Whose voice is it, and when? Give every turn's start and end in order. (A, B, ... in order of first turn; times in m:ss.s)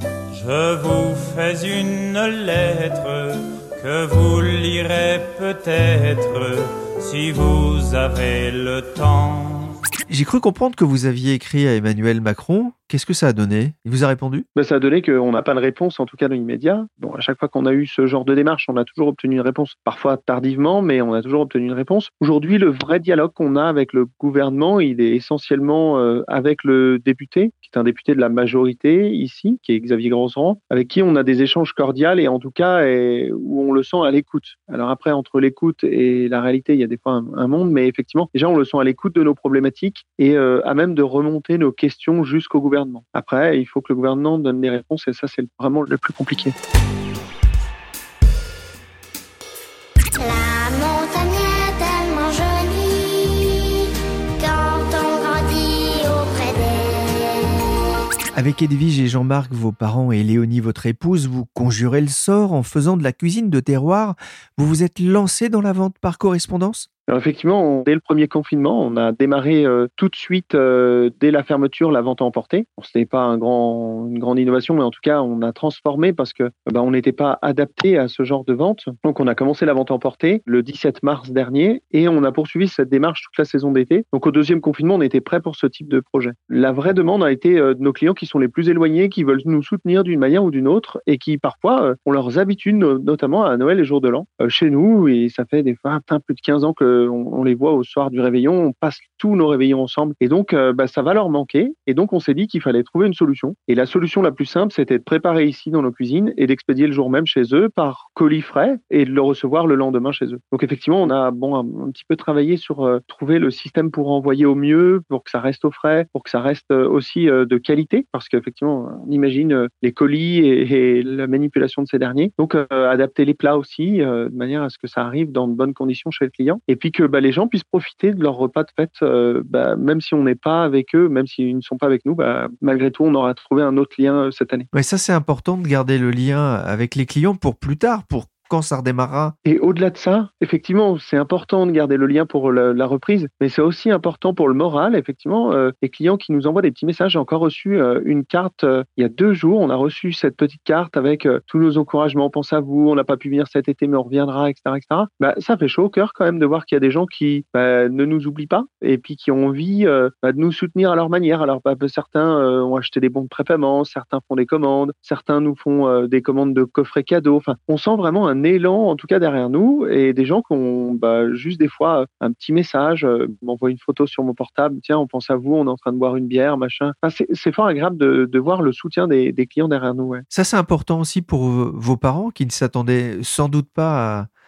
0:00.3-0:09.8 A
0:10.1-0:14.5 B
0:14.6-0:46.6 C
0:50.2-0:53.7 D
0:54.4-0:57.4 D
0:58.3-1:06.9 B
1:07.1-2:14.7 C
2:14.7-2:19.4 B
2:19.4-3:00.3 C
3:00.3-3:04.3 B